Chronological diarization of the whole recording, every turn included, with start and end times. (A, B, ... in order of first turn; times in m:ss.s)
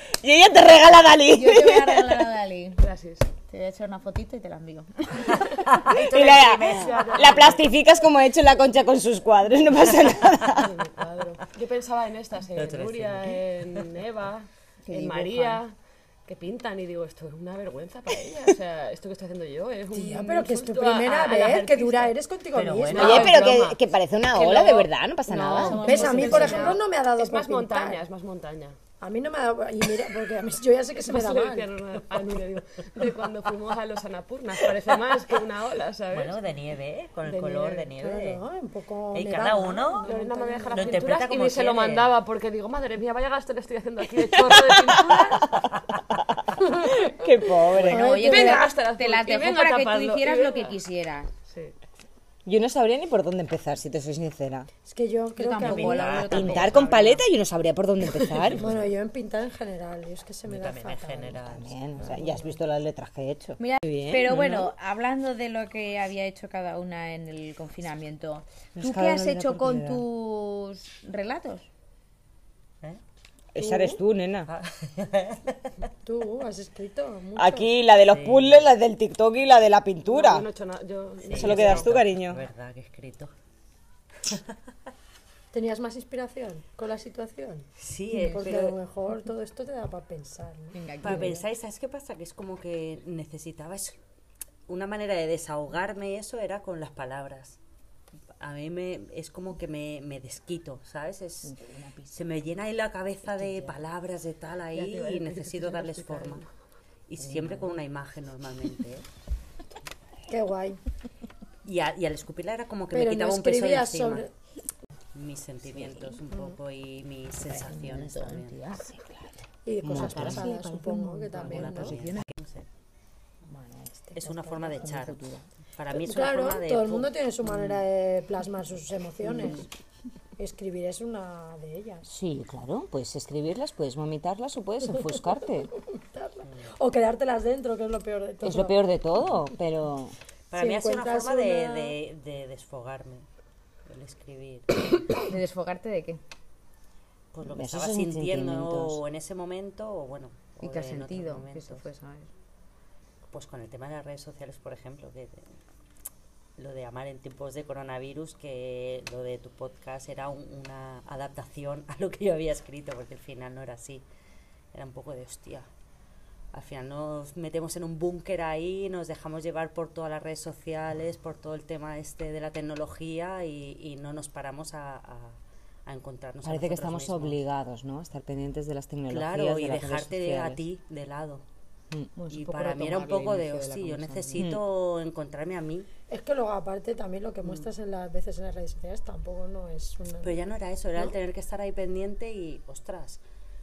0:00.2-0:02.3 A
0:01.3-0:02.8 B
0:02.8-0:03.3 C
0:03.4-0:05.6 B
0:05.8-0:07.7 C
0:05.9-0:07.5 D
0:05.9-0:10.8 A
0:10.5-0:22.1 C
0:12.5-0:13.8 D
0:14.9-0:15.6 B
0:19.9-0:23.4 E
0:22.5-0:23.4 D
0:22.8-0:28.8 C
0:23.0-0:26.4 A
0:25.6-0:26.8 B
0:25.8-0:28.0 E
0:29.0-0:31.7 E
0:31.0-0:36.4 C
0:36.1-0:38.4 D
0:37.2-0:37.9 C
0:38.0-0:41.2 E
0:39.1-0:40.1 D
0:40.0-0:45.6 C
0:40.7-0:42.1 D
0:44.3-0:45.6 A
0:46.1-0:48.3 A
0:47.7-0:51.3 B
0:47.7-0:48.7 E
0:48.2-0:50.8 C
0:51.4-0:51.7 C
0:52.4-0:54.7 A
0:54.8-0:56.3 E
0:55.4-0:57.2 B
0:55.6-0:57.1 D
0:56.2-0:58.7 A
0:58.4-0:58.8 D
0:58.6-1:02.6 E
1:00.4-1:01.7 D
1:01.5-1:04.7 A
1:03.6-1:11.7 B
1:08.8-1:10.0 A
1:13.5-1:14.5 A
1:13.6-1:14.0 E
1:14.5-1:15.6 D
1:16.0-1:17.7 E
1:17.4-1:20.4 A
1:18.1-1:18.6 D
1:20.1-1:22.0 C
1:21.2-1:23.3 D
1:21.4-1:22.4 A
1:25.5-1:30.8 E
1:27.8-1:28.8 D
1:30.7-1:31.4 B
1:31.0-1:34.0 D
1:34.7-1:37.6 D
1:38.4-1:41.5 D
1:41.4-1:42.2 B
1:42.1-1:46.4 D
1:43.4-1:43.7 B
1:44.7-1:46.5 C
1:47.1-1:49.0 D
1:47.2-1:47.6 A
1:50.3-1:50.8 E
1:51.6-1:54.2 D
1:52.9-1:54.3 E
1:55.1-1:58.6 D
1:57.5-1:59.0 B
1:59.6-2:02.0 E
1:59.8-2:00.5 A
1:59.9-2:02.3 B
2:01.3-2:02.6 D
2:03.5-2:05.4 B
2:04.1-2:07.1 D
2:04.5-2:04.9 E
2:05.9-2:09.7 E
2:10.4-2:12.0 E
2:12.0-2:15.7 A
2:15.7-2:18.8 E
2:16.4-2:16.7 D
2:18.4-2:20.1 A
2:20.5-2:23.2 D
2:20.5-2:22.0 E
2:23.8-2:24.9 D
2:25.1-2:26.2 B
2:27.3-2:31.8 D
2:27.5-2:29.0 A
2:30.6-2:32.3 B
2:33.3-2:35.4 D
2:36.6-2:44.0 D
2:44.7-2:45.7 D
2:46.5-2:57.4 D
2:56.4-3:00.6 A
2:59.1-3:01.4 D
3:02.2-3:04.4 B
3:02.3-3:05.9 D
3:04.4-3:04.6 A
3:06.1-3:10.4 E
3:10.2-3:13.2 D